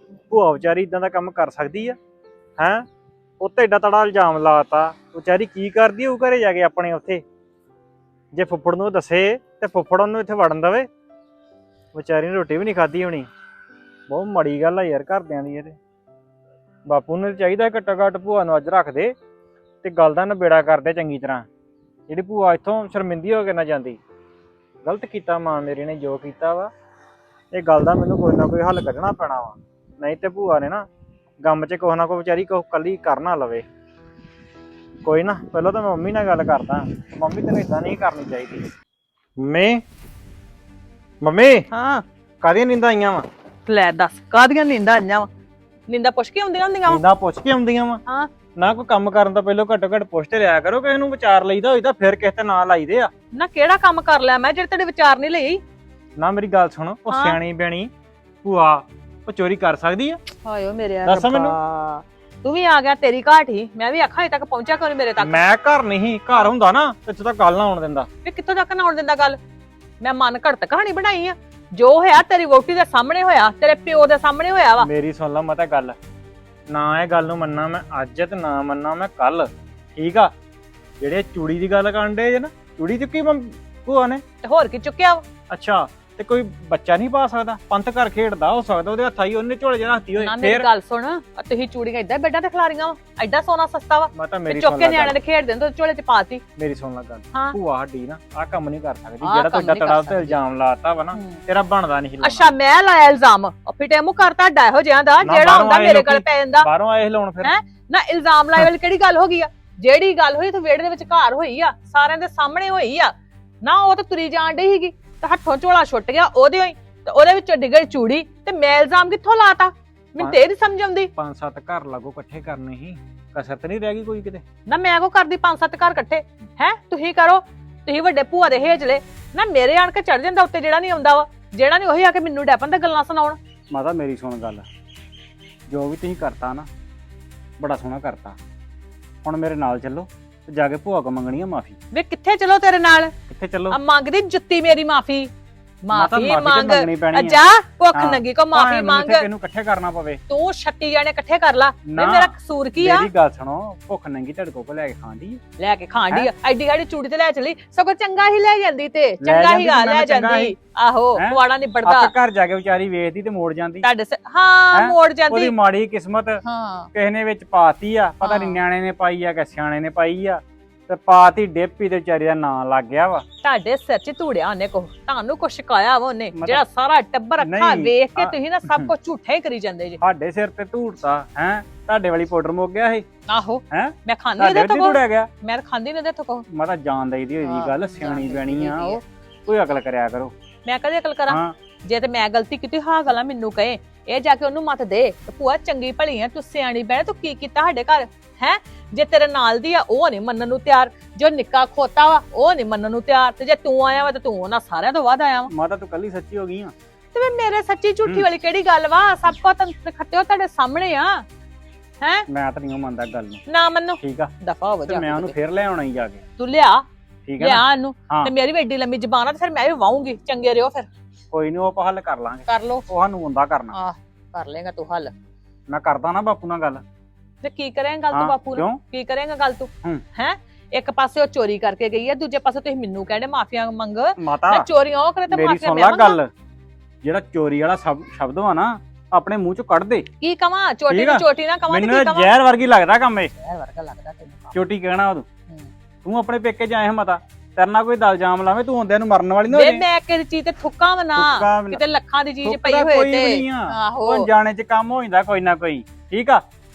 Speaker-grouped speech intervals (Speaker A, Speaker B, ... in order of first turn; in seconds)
Speaker A: 0.3-2.0, 2.6-2.9, 3.4-7.2, 8.3-10.9, 11.9-13.3, 14.1-15.8, 16.9-19.1, 19.8-21.5, 22.1-24.0, 24.8-26.7, 27.5-30.9, 31.4-33.7, 35.0-38.7, 39.4-39.8, 41.2-41.7, 42.4-43.3, 46.9-48.0, 48.5-53.1, 56.2-57.9, 58.4-60.2, 61.0-61.6, 65.2-68.1, 74.8-76.0, 76.7-80.3, 81.0-84.2, 85.5-90.7, 94.1-95.2, 96.6-102.5, 105.2-107.5, 121.2-124.4, 133.7-134.7, 135.7-136.7, 137.6-138.4, 139.2-141.8, 143.3-143.8, 145.9-147.4, 147.9-150.2, 151.8-155.4, 159.2-160.6, 161.2-163.9, 164.7-166.4, 166.9-173.2, 176.3-176.6, 177.4-178.9, 180.0-183.1, 183.7-185.3, 186.5-190.3, 191.3-191.6, 205.5-206.8, 212.3-213.4, 214.0-214.3, 214.9-216.2, 217.3-218.3, 221.3-223.8, 225.7-226.8, 228.1-228.8, 234.2-234.7, 235.3-236.3, 237.0-240.1, 240.9-243.3, 244.5-245.3, 246.0-249.8, 251.1-251.8, 252.4-256.4
Speaker B: 41.7-42.0, 43.7-45.3, 45.9-47.0, 53.3-55.6, 57.1-57.4, 60.4-65.4, 68.2-69.4, 70.0-74.9, 84.4-85.2, 90.2-96.4, 97.3-97.6, 99.2-100.4, 101.1-101.4, 102.2-106.7, 107.4-121.1, 124.7-133.4, 141.9-143.2, 143.7-145.3, 145.8-149.2, 150.3-153.1, 155.6-162.1, 163.8-165.6, 166.4-166.9, 168.2-168.6, 173.4-180.0, 183.3-186.5, 187.4-189.0, 190.7-205.5, 207.1-211.2, 213.5-215.3, 216.4-216.9, 217.4-220.9, 222.5-222.8, 223.7-225.1, 227.4-236.2, 240.2-242.4, 243.4-244.6, 249.5-254.3